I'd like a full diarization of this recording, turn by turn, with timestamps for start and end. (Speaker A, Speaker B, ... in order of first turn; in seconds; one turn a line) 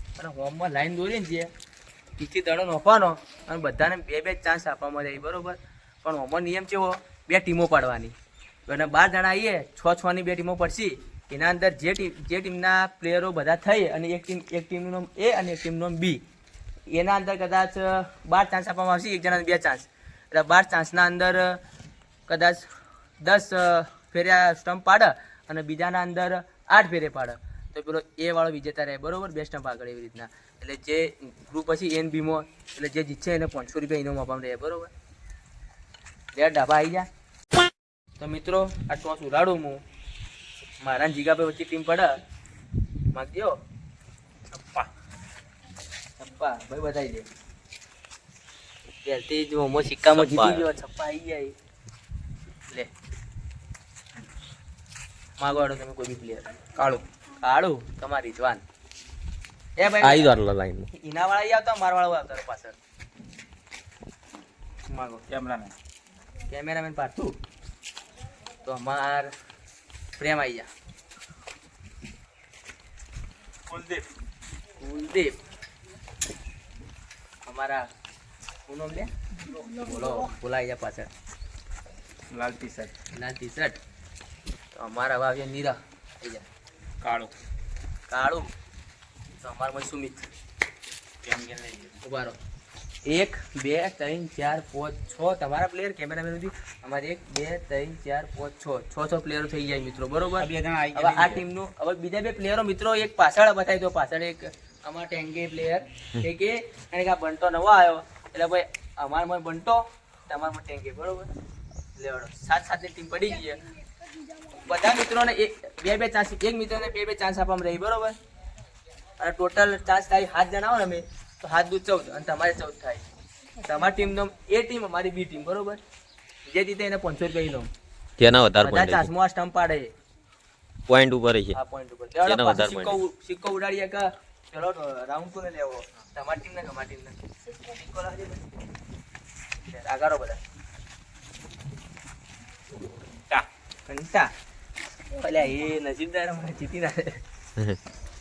Speaker A: 0.2-1.5
Speaker A: 2.2-8.1
Speaker A: 8.7-16.2
Speaker A: 16.9-21.6
Speaker A: 22.3-22.7
Speaker A: 23.2-34.9
Speaker A: 36.3-37.1
Speaker A: 38.2-39.8
Speaker A: 40.8-42.1
Speaker A: 43.1-43.6
Speaker A: 46.2-47.3
Speaker A: 49.0-51.5
Speaker B: 50.1-50.7
Speaker A: 55.4-58.6
Speaker A: 59.8-60.4
Speaker B: 60.0-60.9
Speaker A: 60.9-62.8
Speaker C: 64.9-65.7
Speaker A: 64.9-65.3
Speaker A: 66.5-67.3
Speaker A: 68.6-69.3
Speaker A: 70.2-70.7
Speaker C: 73.7-74.0
Speaker A: 74.8-75.4
Speaker A: 77.5-77.9
Speaker A: 78.7-79.1
Speaker A: 79.8-81.1
Speaker C: 82.3-82.9
Speaker A: 83.1-83.8
Speaker A: 84.8-86.5
Speaker C: 87.0-87.3
Speaker A: 88.1-88.5
Speaker A: 89.4-90.3
Speaker C: 91.2-92.0
Speaker A: 92.0-92.4
Speaker A: 93.1-111.3
Speaker C: 100.4-101.4
Speaker A: 112.0-113.6
Speaker A: 114.6-118.2
Speaker A: 119.2-123.0
Speaker A: 123.6-125.8
Speaker A: 126.5-127.7
Speaker B: 128.2-129.1
Speaker A: 128.6-129.9
Speaker B: 130.9-131.6
Speaker A: 131.6-138.7
Speaker B: 132.2-133.0
Speaker A: 139.7-140.4
Speaker A: 143.3-144.3
Speaker A: 145.1-147.2